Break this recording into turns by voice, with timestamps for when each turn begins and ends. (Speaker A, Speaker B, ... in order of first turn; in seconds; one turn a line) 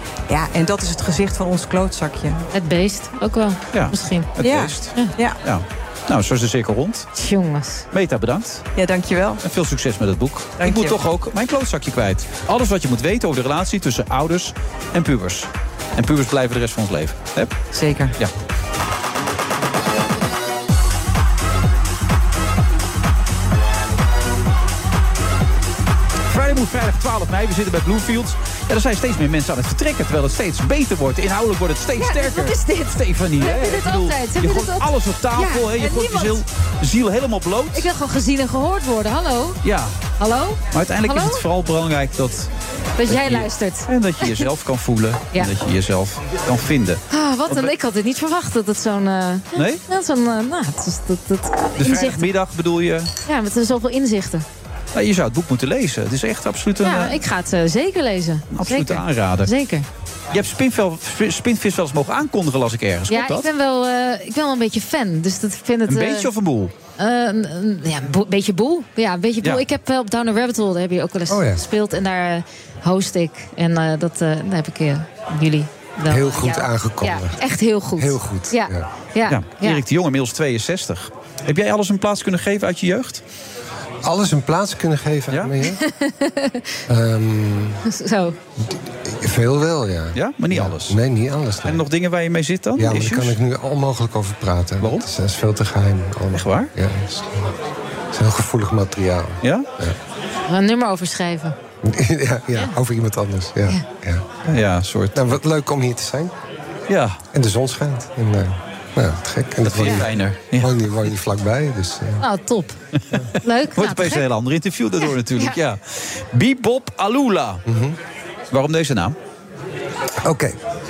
Speaker A: 0.3-2.5
Speaker B: 2.5-4.3
Speaker C: 3.7-7.1
Speaker A: 4.4-5.4
Speaker B: 4.9-5.2
Speaker B: 7.2-7.8
Speaker C: 7.9-8.6
Speaker A: 8.8-9.4
Speaker C: 9.4-17.5
Speaker A: 10.6-11.0
Speaker A: 17.7-18.2
Speaker C: 26.3-37.9
Speaker B: 32.0-36.4
Speaker B: 37.7-39.6
Speaker C: 39.6-40.0
Speaker B: 40.2-41.4
Speaker C: 40.7-42.5
Speaker B: 43.0-44.4
Speaker C: 43.1-47.7
Speaker B: 47.1-52.3
Speaker C: 49.5-49.8
Speaker C: 51.8-53.1
Speaker B: 53.3-54.5
Speaker C: 54.9-57.2
Speaker B: 56.8-59.9
Speaker C: 58.5-59.5
Speaker C: 60.3-63.5
Speaker B: 63.1-66.3
Speaker C: 65.9-66.7
Speaker B: 67.0-79.8
Speaker D: 71.3-71.6
Speaker D: 76.1-77.4
Speaker D: 78.0-78.9
Speaker C: 79.3-83.2
Speaker D: 84.0-85.8
Speaker C: 85.3-85.5
Speaker B: 85.7-86.7
Speaker D: 86.9-87.8
Speaker B: 87.8-88.4
Speaker D: 88.6-91.8
Speaker C: 90.1-91.0
Speaker C: 91.6-93.4
Speaker D: 92.8-97.5
Speaker C: 94.8-95.1
Speaker C: 96.3-96.7
Speaker D: 98.1-100.0
Speaker C: 99.4-99.7
Speaker B: 100.5-101.5
Speaker D: 101.8-104.3
Speaker C: 104.5-105.3
Speaker D: 105.1-106.3
Speaker C: 106.9-107.2
Speaker D: 107.3-112.2
Speaker C: 109.6-110.9
Speaker B: 112.2-112.8
Speaker B: 113.4-114.2
Speaker C: 113.8-117.6
Speaker D: 117.7-118.0
Speaker C: 118.5-119.2
Speaker D: 120.2-120.6